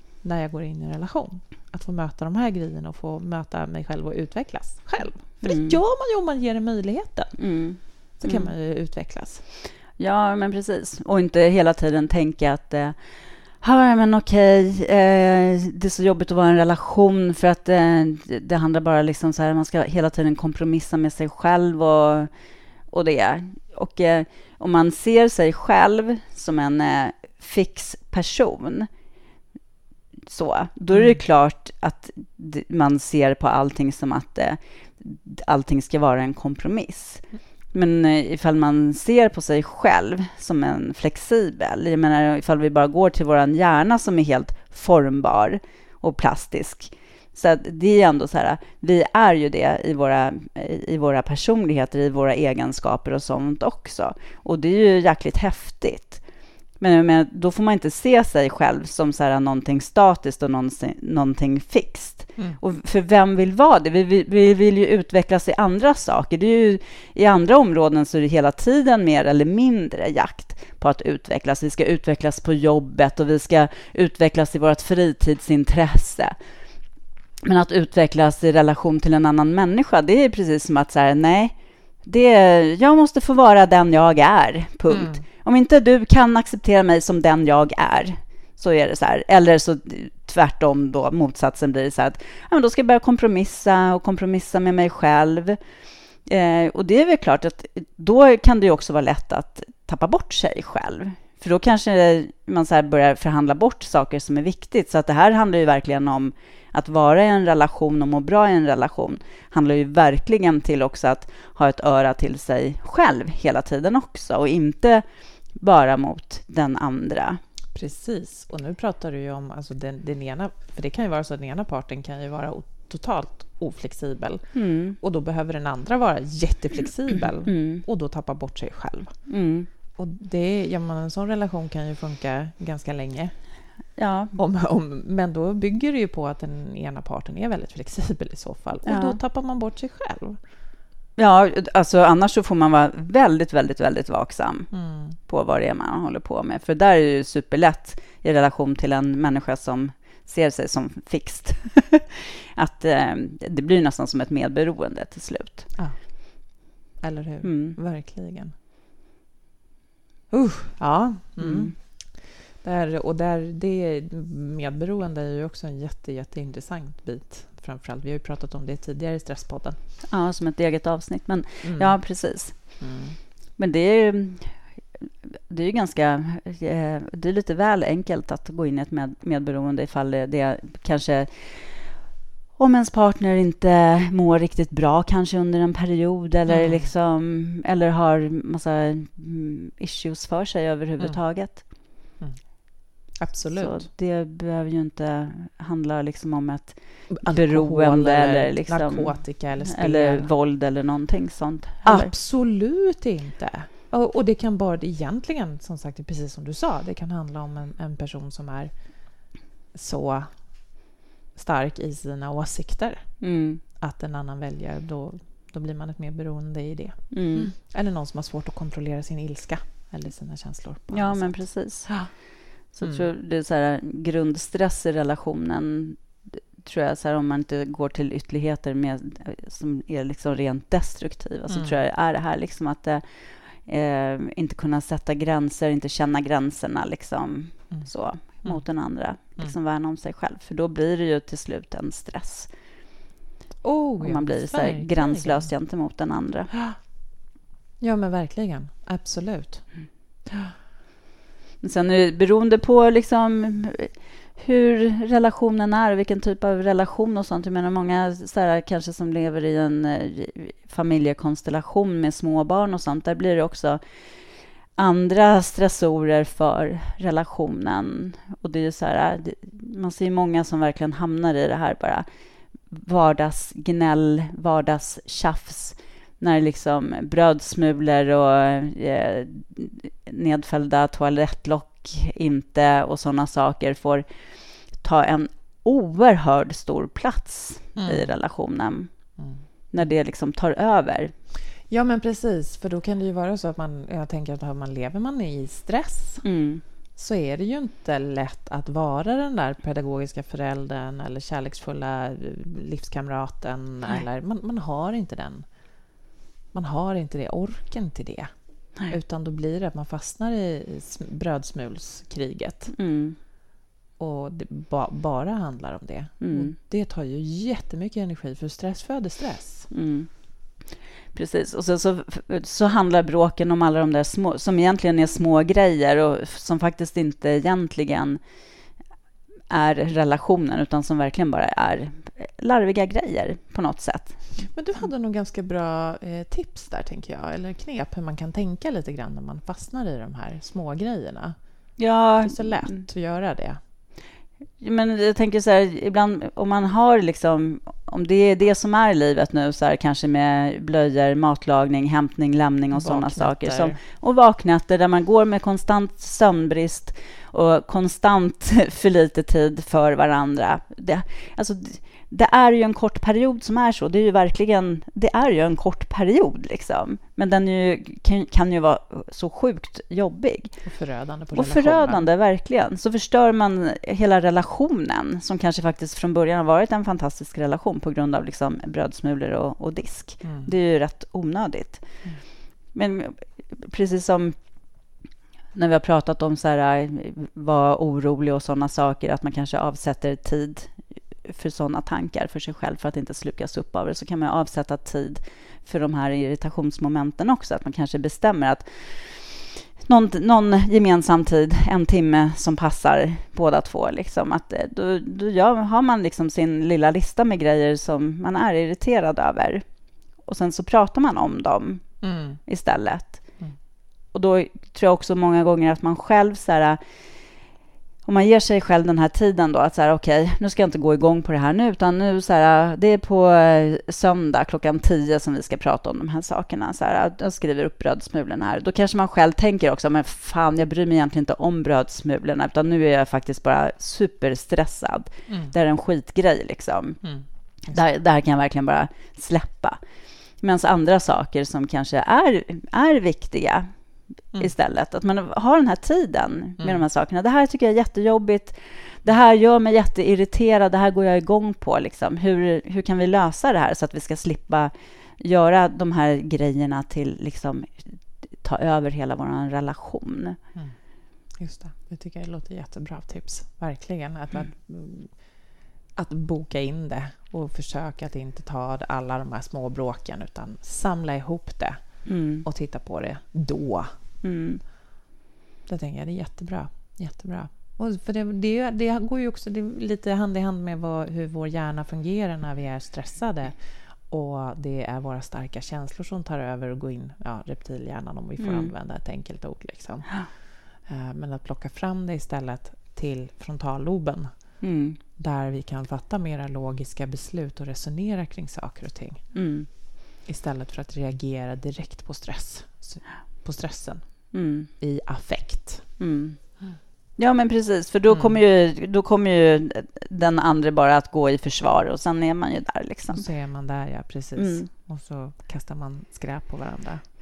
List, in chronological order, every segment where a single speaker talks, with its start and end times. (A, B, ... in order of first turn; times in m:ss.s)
0:00.2-0:09.4 A
0:05.4-0:05.8 B
0:07.4-0:08.5 B
0:10.0-0:22.3 B
0:22.9-0:28.9 B
0:30.3-0:56.2 B
0:30.9-0:31.2 A
0:56.8-1:16.3 B
1:17.4-1:35.6 B
1:24.9-1:25.2 A
1:36.2-1:55.0 B
1:55.6-1:57.4 B
1:57.7-2:09.2 A
2:04.5-2:05.0 B
2:07.4-2:07.8 B
2:09.3-2:09.7 B
2:10.0-2:13.3 A
2:14.0-2:14.4 B
2:14.4-2:20.4 A
2:18.8-2:19.2 B
2:21.2-2:35.7 B
2:24.7-2:25.2 A
2:35.7-2:38.5 A
2:37.4-2:37.8 B
2:40.3-2:49.8 A
2:41.4-2:41.7 B
2:50.1-2:52.8 B
2:51.6-2:52.0 A
2:52.5-2:53.2 A
2:53.6-3:02.0 B
3:02.5-3:11.7 B
3:06.5-3:06.9 A
3:12.2-3:13.9 A
3:13.6-3:22.1 B
3:17.1-3:20.3 A
3:21.8-3:28.7 A
3:29.7-3:30.3 A
3:31.3-3:33.2 A
3:33.2-3:33.6 B
3:33.8-3:42.1 A
3:37.1-3:37.5 B
3:40.9-4:02.5 B
3:51.5-3:51.8 A
3:59.2-3:59.5 A
4:03.6-4:05.5 A
4:04.0-4:06.5 B
4:07.8-4:10.5 A
4:11.6-4:23.8 B
4:24.7-4:32.0 B
4:32.7-4:44.0 B
4:44.7-4:49.1 B
4:47.8-4:48.1 A
4:49.2-4:49.4 A
4:49.7-4:51.1 B
4:51.7-4:56.2 A
4:56.2-4:56.6 B
4:57.0-5:05.4 A
5:06.5-5:08.3 A
5:08.9-5:12.7 A
5:12.7-5:13.2 B
5:14.0-5:19.7 A
5:16.2-5:16.6 B
5:19.7-5:20.6 B
5:21.1-5:28.2 B
5:29.5-5:34.3 B
5:34.4-5:41.4 A
5:41.8-5:42.8 B
5:42.2-5:43.6 A
5:44.6-6:10.6 B
5:52.7-5:53.8 A
6:10.6-6:12.0 A
6:11.3-6:22.0 B
6:20.2-6:20.5 A
6:22.7-6:24.4 B
6:25.5-6:53.4 B
6:52.0-6:52.4 A
6:54.1-6:56.8 B
6:58.0-7:17.0 B
7:15.3-7:15.5 A
7:17.0-7:17.8 A
7:17.7-7:19.8 B
7:20.4-7:23.7 B
7:24.3-7:40.4 B
7:41.4-7:45.3 A
7:46.0-7:53.9 A
7:52.0-7:52.4 B
7:54.2-7:54.6 B
7:55.7-8:14.4 A
8:08.4-8:08.7 B
8:14.6-8:15.0 B
8:15.2-8:19.2 A
8:19.3-8:19.7 B
8:20.2-8:24.2 A
8:24.3-8:24.7 B
8:24.8-8:25.8 A
8:26.0-8:26.4 B
8:27.2-8:33.2 B
8:28.1-8:28.4 A
8:33.1-8:37.0 A
8:34.4-8:34.7 B